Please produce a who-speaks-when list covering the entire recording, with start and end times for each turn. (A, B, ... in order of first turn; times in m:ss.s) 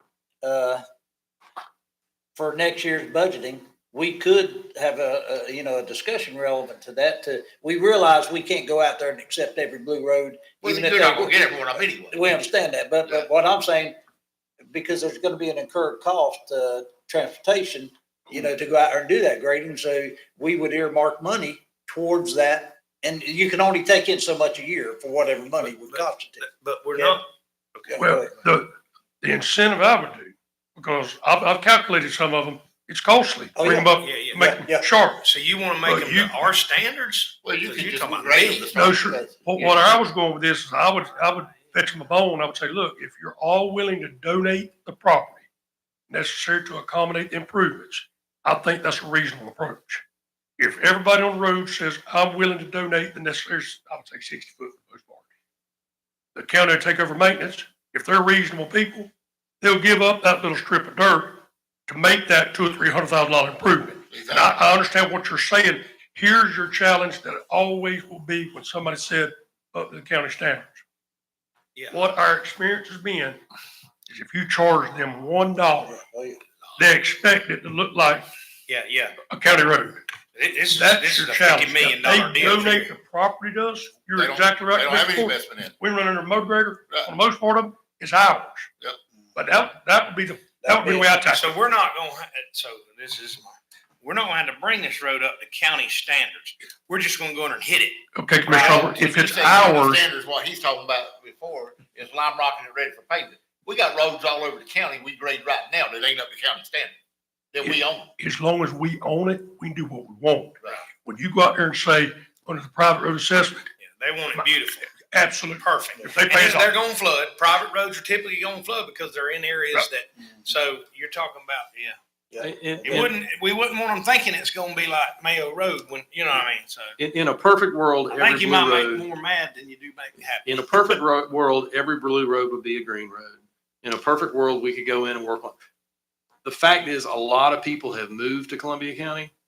0:00.4-0:00.8 A
0:02.4-0:14.0 A
0:10.6-0:12.2 B
0:14.7-0:27.2 A
0:25.6-0:28.1 C
0:27.9-0:28.3 A
0:28.0-0:35.2 D
0:33.6-0:34.9 A
0:34.0-0:34.5 C
0:35.2-0:38.7 C
0:35.8-0:36.5 D
0:37.4-0:39.0 B
0:38.7-0:45.4 D
0:38.9-0:39.3 A
0:46.1-0:50.0 D
0:50.6-0:55.2 D
0:56.4-1:10.8 D
1:04.1-1:04.7 B
1:11.8-1:12.0 C
1:11.9-1:13.4 D
1:14.1-1:16.0 D
1:15.9-1:16.4 A
1:16.8-1:18.3 D
1:18.7-1:19.2 C
1:19.3-1:20.0 D
1:20.4-1:22.9 C
1:20.7-1:28.7 D
1:24.2-1:25.8 B
1:29.4-1:31.5 D
1:30.6-1:31.1 A
1:31.3-1:38.0 C
1:38.2-1:40.0 D
1:38.5-1:46.9 B
1:47.5-1:48.1 B
1:47.6-1:53.6 D
1:53.8-1:54.9 C
1:55.0-1:56.7 D
1:55.6-2:02.0 C
2:02.3-2:03.0 A
2:02.4-2:03.1 E
2:02.8-2:07.0 C
2:07.0-2:09.0 E
2:08.1-2:11.0 C
2:10.4-2:15.6 E
2:16.4-2:19.3 E